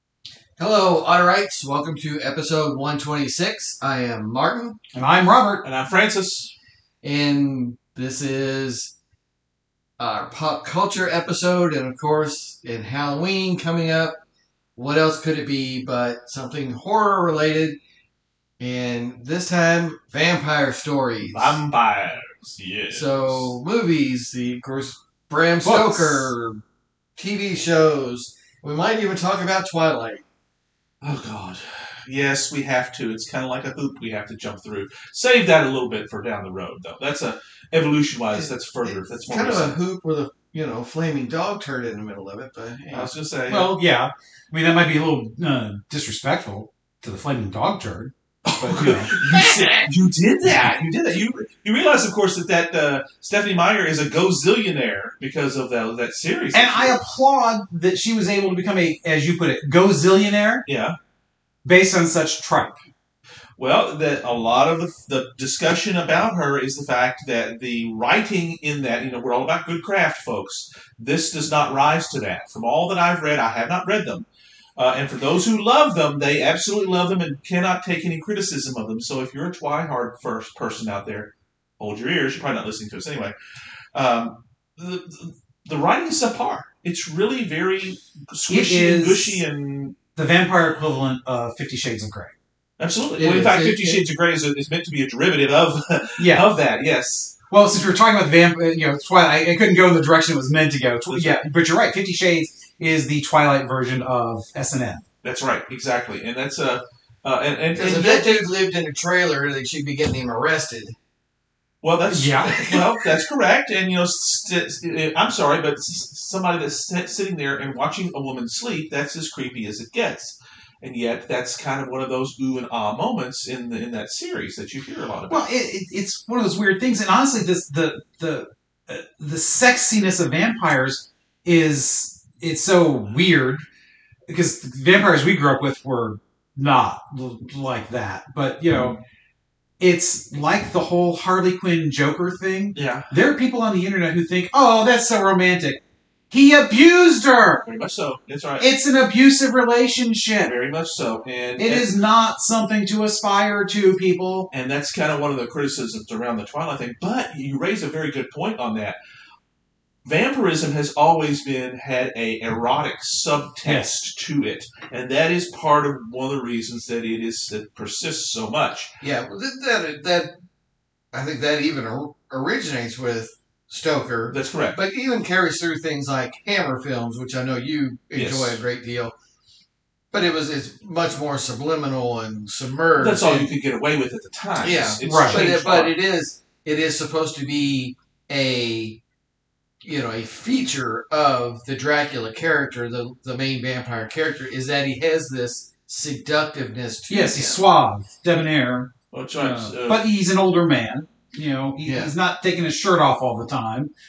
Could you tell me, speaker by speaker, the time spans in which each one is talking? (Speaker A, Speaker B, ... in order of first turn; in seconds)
Speaker A: 0.6-4.8, 7.0-8.9, 10.0-14.2, 14.8-17.8, 18.6-21.6, 22.9-26.6, 27.2-30.2, 38.4-43.1, 49.2-49.9, 93.2-94.0, 107.7-111.0, 169.0-170.3, 171.1-179.1, 180.1-183.5, 184.6-189.0, 189.8-197.6, 201.8-202.1
Speaker B: 4.9-5.7, 25.6-26.3, 43.5-49.1, 56.5-60.6, 61.6-62.8, 88.5-89.4, 90.2-92.3, 96.2-96.5, 97.5-105.0, 112.1-112.8, 125.3-133.6, 134.3-139.0, 139.8-147.6, 148.6-150.5, 151.6-154.5, 163.6-163.9, 185.0-185.4, 197.1-203.9
Speaker C: 5.6-6.5, 21.3-23.5, 31.0-39.7, 42.9-43.7, 48.5-57.0, 60.7-61.0, 63.6-74.3, 74.8-83.3, 83.9-90.0, 92.8-97.3, 101.1-101.4, 105.2-108.5, 111.8-125.5, 142.8-143.1, 147.7-148.7, 150.4-151.9, 154.5-159.0, 160.1-168.9, 174.3-174.8, 178.2-178.6, 183.0-185.9, 199.1-200.0